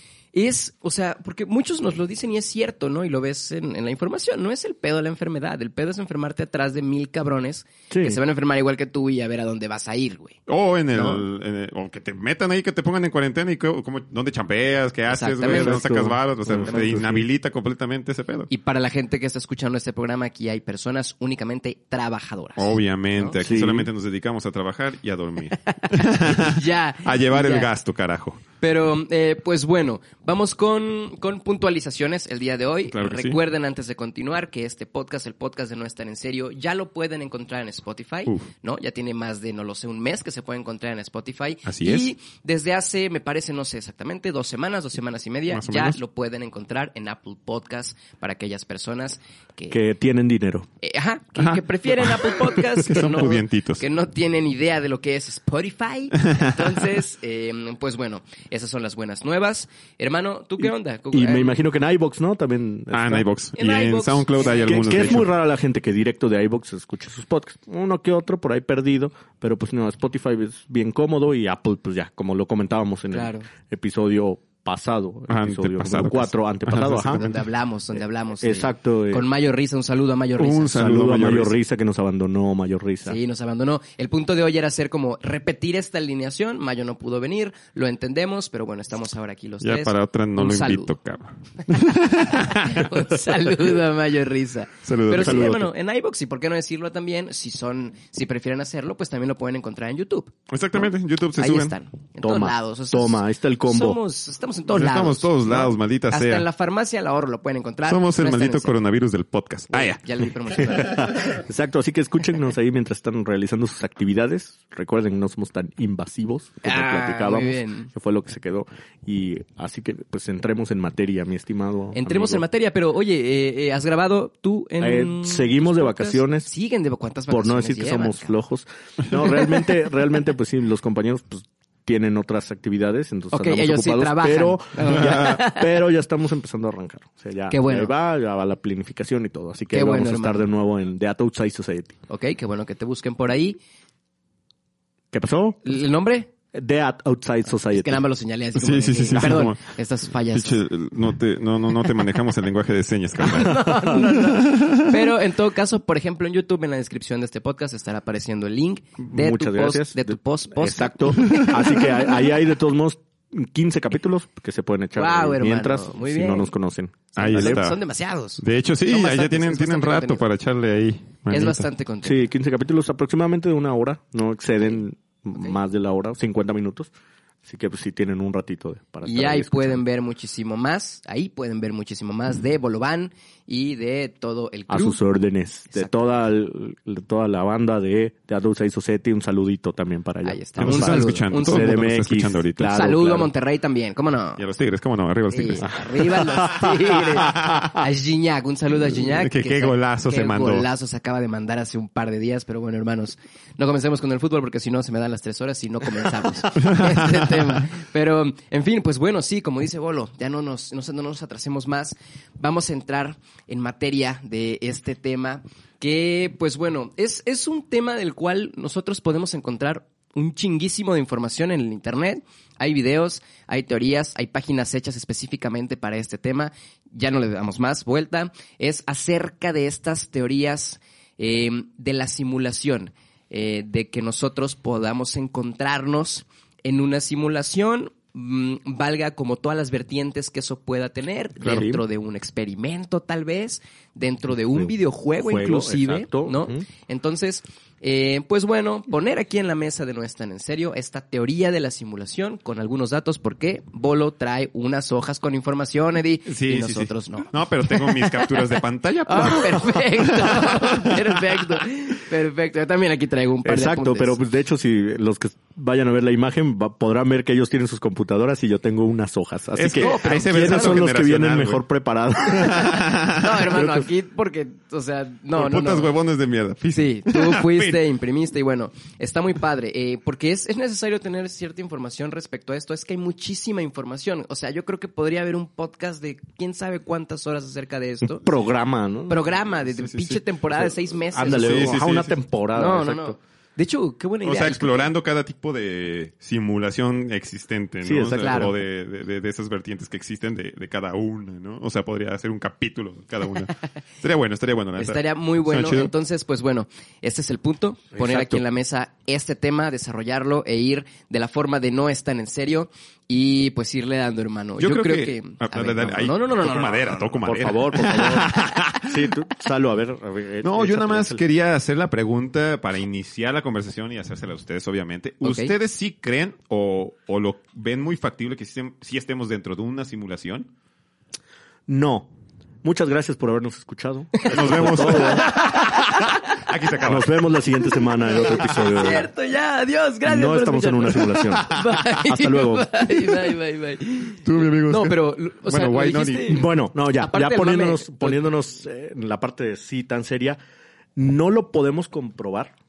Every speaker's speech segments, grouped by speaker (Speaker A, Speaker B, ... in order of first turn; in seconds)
Speaker A: 0.3-10.4, 10.9-11.2, 15.1-15.9, 18.5-23.4, 25.5-27.7, 28.6-49.8, 50.8-61.6, 63.6-65.2, 73.1-73.5, 77.1-80.8, 83.1-90.9, 92.1-108.8, 109.7-111.3, 116.6-117.9, 122.0-128.3, 133.3-135.8, 137.5-137.9, 139.7-140.4, 142.1-143.6, 145.6-146.3, 147.7-150.7, 153.2-161.5, 165.0-166.5, 167.2-170.2, 171.3-172.3, 179.1-185.0, 185.7-186.2, 190.2-191.7, 192.6-194.4, 195.3-258.4, 259.1-264.2, 269.6-270.9, 272.3-275.9, 276.7-288.4, 289.1-291.8, 292.6-294.8, 298.2-298.5, 304.8-317.6, 318.4-318.7, 325.2-325.5, 334.2-336.4, 338.1-348.3
Speaker B: 7.9-8.2, 15.4-17.3, 23.4-23.9, 49.7-50.7, 60.6-63.3, 64.5-77.3, 78.4-79.3, 80.7-83.2, 95.1-95.7, 102.2-104.0, 110.5-122.4, 124.8-126.5, 127.3-142.0, 145.1-145.6, 146.5-148.0, 159.1-167.7, 172.0-176.9, 177.4-179.8, 184.7-193.3, 196.3-196.7, 241.4-241.8, 244.5-246.7, 263.4-273.8, 288.0-289.4, 290.5-293.2, 297.8-298.5, 317.2-321.2, 331.7-335.3, 336.8-339.1, 340.1-343.0, 346.3-350.4, 351.0-352.5
Speaker C: 10.5-18.5, 22.6-28.4, 32.9-33.4, 41.7-42.1, 45.5-46.0, 51.4-53.8, 62.9-65.3, 75.3-77.5, 80.4-81.5, 89.6-93.0, 94.8-95.6, 100.5-101.7, 104.7-106.5, 107.9-110.0, 148.6-149.7, 150.3-154.8, 161.2-161.8, 167.2-167.8, 168.4-171.7, 190.6-192.8, 194.4-195.8, 197.3-197.7, 198.8-200.7, 206.6-207.5, 256.3-261.1, 269.6-271.6, 272.4-273.3, 275.3-277.8, 289.9-290.2, 291.2-292.1, 294.2-305.9, 314.6-318.9, 320.4-330.5, 334.3-337.2, 338.3-338.9, 344.2-346.4